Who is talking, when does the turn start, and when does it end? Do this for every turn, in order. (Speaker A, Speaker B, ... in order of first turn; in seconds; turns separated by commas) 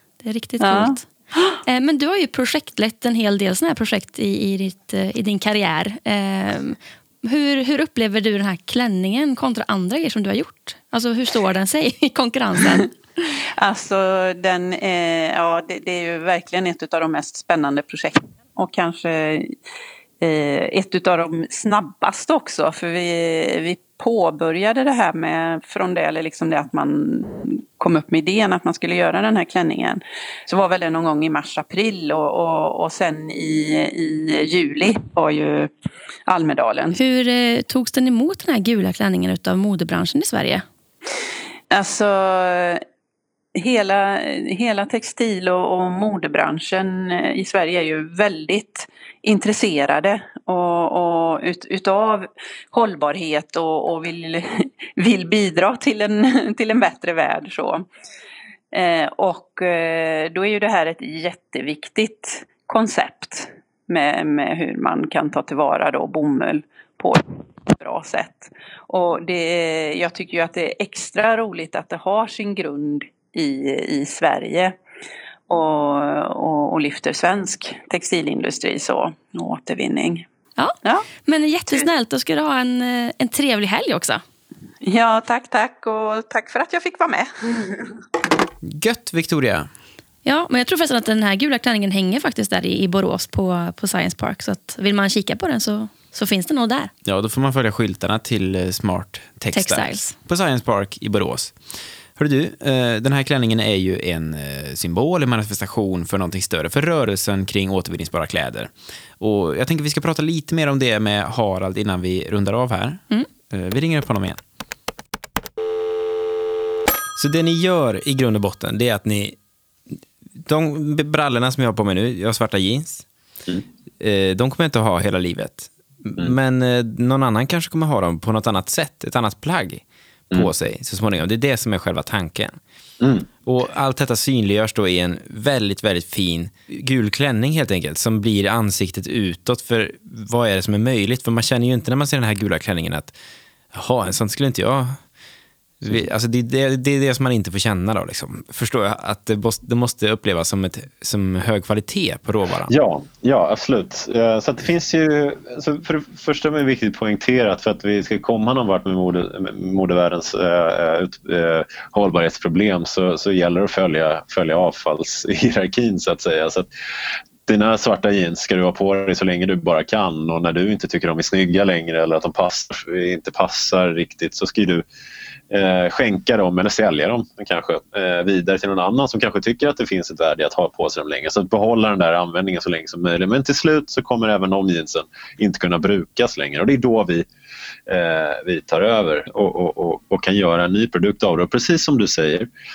Speaker A: 0.2-1.1, Speaker B: 0.6-1.5, Speaker A: 1.7-13.3, Speaker B: 13.6-19.6, Speaker B: 20.2-35.7, Speaker B: 36.3-37.0, Speaker A: 37.0-40.6, Speaker B: 41.7-42.8, Speaker B: 43.5-57.9, Speaker B: 58.7-74.8, Speaker B: 75.5-80.2, Speaker A: 80.6-84.2, Speaker B: 80.8-81.1, Speaker B: 84.8-88.0, Speaker C: 88.6-89.7, Speaker A: 90.2-96.9, Speaker C: 97.0-101.6, Speaker A: 99.5-100.2, Speaker C: 102.2-114.4, Speaker C: 117.2-119.4, Speaker C: 120.4-123.1, Speaker C: 124.0-132.6, Speaker D: 133.0-133.3, Speaker C: 133.4-143.2, Speaker C: 143.7-145.0, Speaker C: 145.8-152.7, Speaker D: 152.7-166.7, Speaker D: 167.5-174.8, Speaker D: 175.5-187.3, Speaker D: 187.9-192.5